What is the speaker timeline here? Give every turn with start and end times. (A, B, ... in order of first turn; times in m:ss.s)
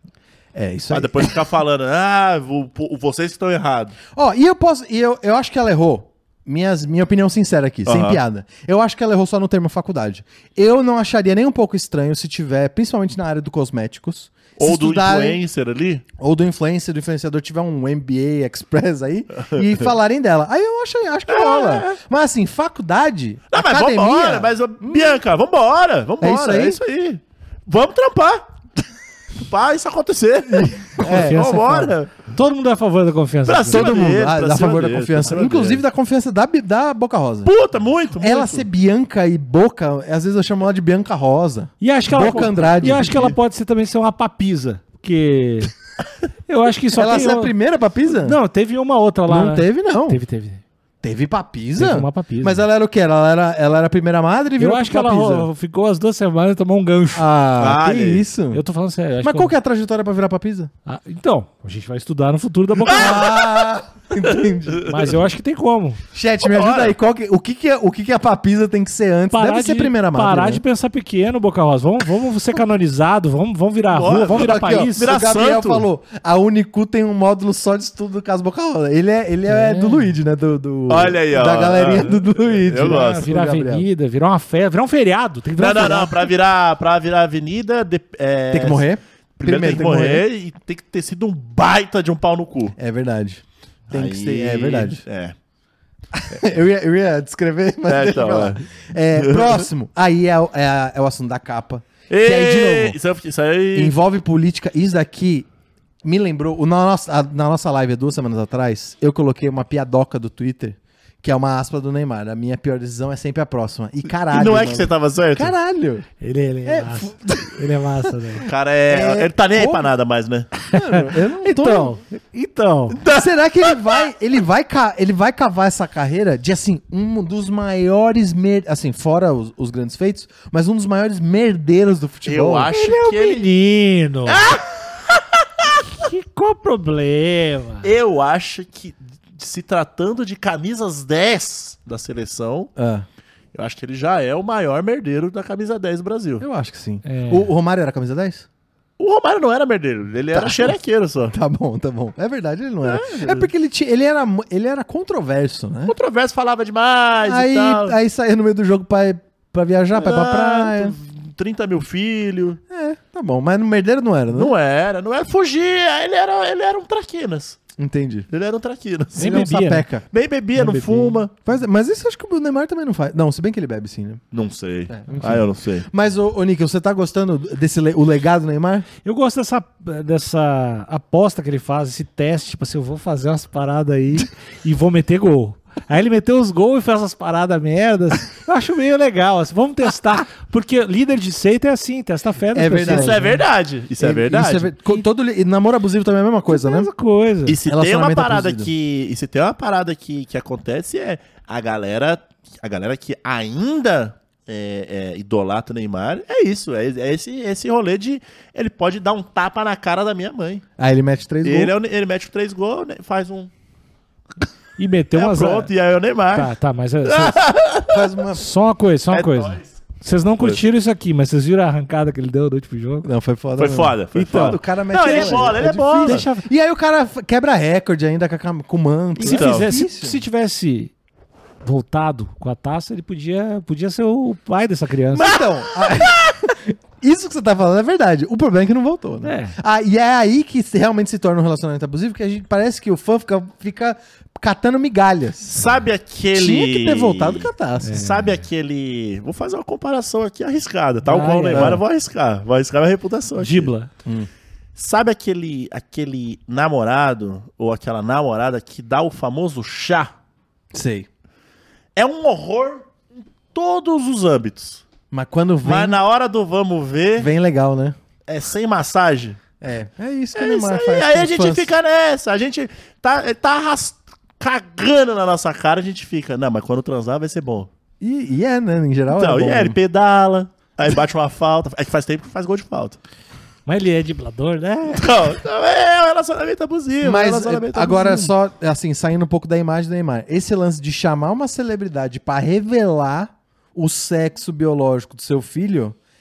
0:00.5-0:01.4 A
0:00.9-0:03.9 B
0:04.1-0:15.4 A
0:07.8-0:08.2 B
0:14.6-0:16.0 B
0:16.2-0:25.2 A
0:21.3-0:22.0 B
0:23.5-0:28.5 B
0:26.2-0:26.8 A
0:29.4-0:32.2 B
0:30.5-0:31.4 A
0:31.0-0:34.1 C
0:33.4-0:35.8 B
0:33.7-0:37.5 A
0:37.4-0:38.7 B
0:38.2-0:43.4 A
0:41.8-0:45.7 C
0:46.5-0:47.5 C
0:46.9-0:48.4 A
0:48.1-0:50.6 C
0:49.2-0:50.2 A
0:51.0-0:55.5 A
0:51.8-0:52.6 C
0:54.6-0:57.3 C
0:57.1-0:58.6 A
0:57.6-0:58.2 B
0:58.5-0:59.5 C
0:59.2-1:00.7 A
1:00.8-1:03.5 C
1:02.9-1:03.2 B
1:02.9-1:05.1 A
1:04.8-1:06.0 C
1:06.1-1:10.6 A
1:06.4-1:06.9 B
1:09.3-1:15.1 C
1:13.9-1:15.9 B
1:14.3-1:23.9 A
1:19.4-1:20.2 C
1:20.9-1:23.3 B
1:22.8-1:26.3 C
1:25.6-1:28.8 B
1:28.5-1:30.2 A
1:29.4-1:32.7 B
1:32.8-1:35.0 A
1:33.9-1:35.3 B
1:36.1-1:43.0 A
1:37.9-1:38.6 B
1:39.1-1:39.6 B
1:42.1-1:43.9 B
1:43.7-1:45.5 A
1:46.0-1:56.1 A
1:54.3-1:55.5 B
1:56.2-1:58.5 C
1:56.6-1:58.1 A
1:58.4-2:00.5 B
1:58.9-1:59.9 A
2:00.7-2:02.0 A
2:00.7-2:03.0 C
2:02.9-2:03.8 B
2:03.1-2:12.7 A
2:12.2-2:13.5 B
2:12.7-2:14.5 C
2:14.3-2:15.0 B
2:15.7-2:17.9 C
2:17.8-2:22.7 B
2:22.8-2:23.0 A
2:23.5-2:26.4 B
2:26.4-2:28.5 A
2:27.0-2:27.5 C
2:29.0-2:31.3 B
2:30.3-2:30.8 A
2:31.3-2:35.9 A
2:32.8-2:33.5 B
2:35.9-2:37.9 B
2:37.2-2:41.0 A
2:39.9-2:42.6 B
2:42.7-2:44.5 A
2:44.3-2:47.6 B
2:47.8-2:48.3 A
2:48.3-2:49.4 B
2:49.2-2:50.0 A
2:49.2-2:49.9 C
2:50.1-2:51.3 B
2:50.5-2:51.2 C
2:51.4-2:54.2 A
2:54.3-2:55.9 B
2:54.9-2:58.9 A
2:59.0-3:13.4 C
3:12.5-3:13.2 A
3:12.8-3:14.7 B
3:14.0-3:16.9 A
3:16.5-3:17.6 C
3:17.4-3:30.6 B
3:17.6-3:18.7 A
3:30.8-3:31.7 A
3:31.4-3:33.5 B
3:34.8-3:35.7 C
3:35.1-3:36.5 B
3:36.3-3:37.5 C
3:37.0-3:37.9 B
3:37.9-3:38.5 A
3:38.3-3:43.1 C
3:39.1-3:39.8 B
3:43.0-3:50.2 A
3:43.6-3:46.2 B
3:44.2-3:46.4 C
3:49.2-3:50.9 C
3:49.2-3:49.7 B
3:51.6-3:55.4 C
3:55.1-4:05.6 A
3:59.2-3:59.6 C
4:05.5-4:13.7 B
4:06.3-4:08.0 A
4:07.8-4:08.4 C
4:11.0-4:11.8 C
4:11.5-4:11.8 A
4:13.4-4:13.9 C
4:14.8-4:20.1 B
4:20.7-4:21.1 A
4:22.0-4:22.9 B
4:23.5-4:24.8 B
4:25.1-4:26.0 A
4:25.6-4:27.3 B
4:27.2-4:27.9 A
4:28.3-4:29.4 B
4:29.6-4:31.7 A
4:30.3-4:37.7 B
4:38.0-4:39.8 A
4:39.1-4:43.0 B
4:43.6-4:45.2 C
4:44.9-4:48.3 B
4:47.0-4:56.0 A